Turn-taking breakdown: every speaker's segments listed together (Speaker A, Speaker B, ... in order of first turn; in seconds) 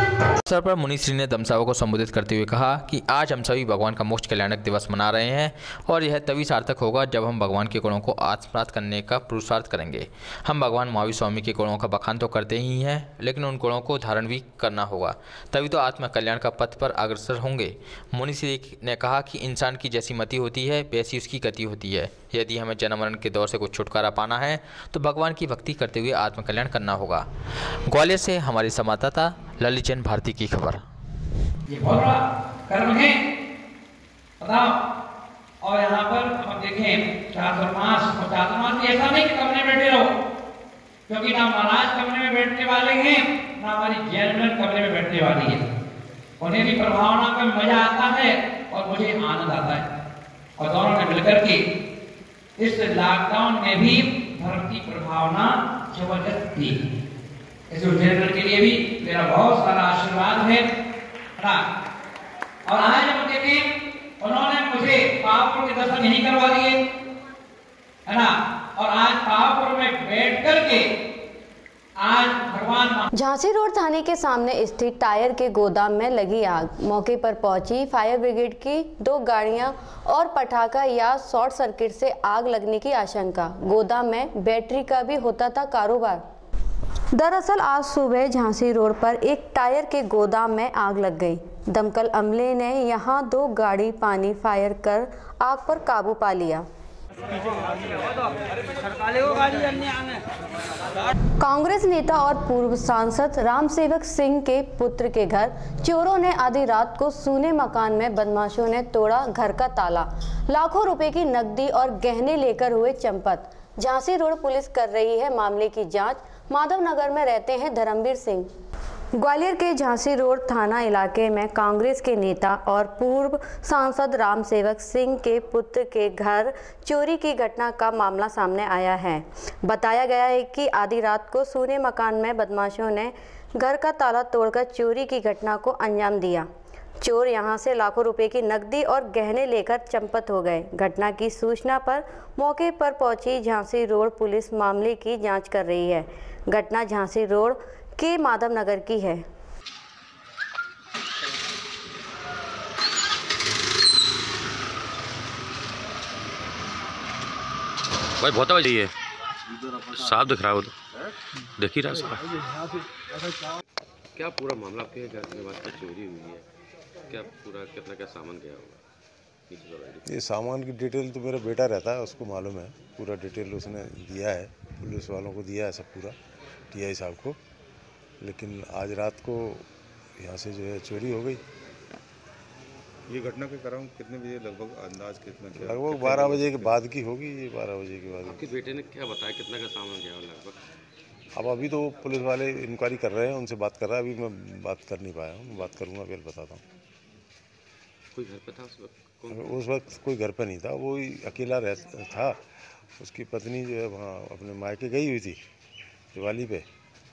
Speaker A: 0.5-27.3, 27.9-30.8
Speaker B: 31.7-33.2, 34.4-34.8, 35.6-40.1, 41.1-45.6, 46.4-49.9, 50.6-51.6, 52.6-56.8, 57.7-60.7, 61.4-61.6, 62.7-63.7, 64.2-66.8, 68.1-70.9, 72.0-73.1
Speaker C: 73.2-86.2, 87.2-96.7, 101.4-118.5, 119.2-136.5, 137.0-149.2
Speaker D: 158.2-158.9, 159.8-160.7, 161.6-162.3, 164.2-166.5, 167.1-168.8, 169.5-170.1, 186.0-186.7, 188.3-190.6, 198.1-199.5
Speaker E: 170.1-176.2, 176.7-177.4, 178.2-179.7, 180.2-181.4, 185.6-188.4, 191.3-196.6, 199.3-202.4, 203.0-205.4, 206.1-206.7
Speaker F: 183.1-186.2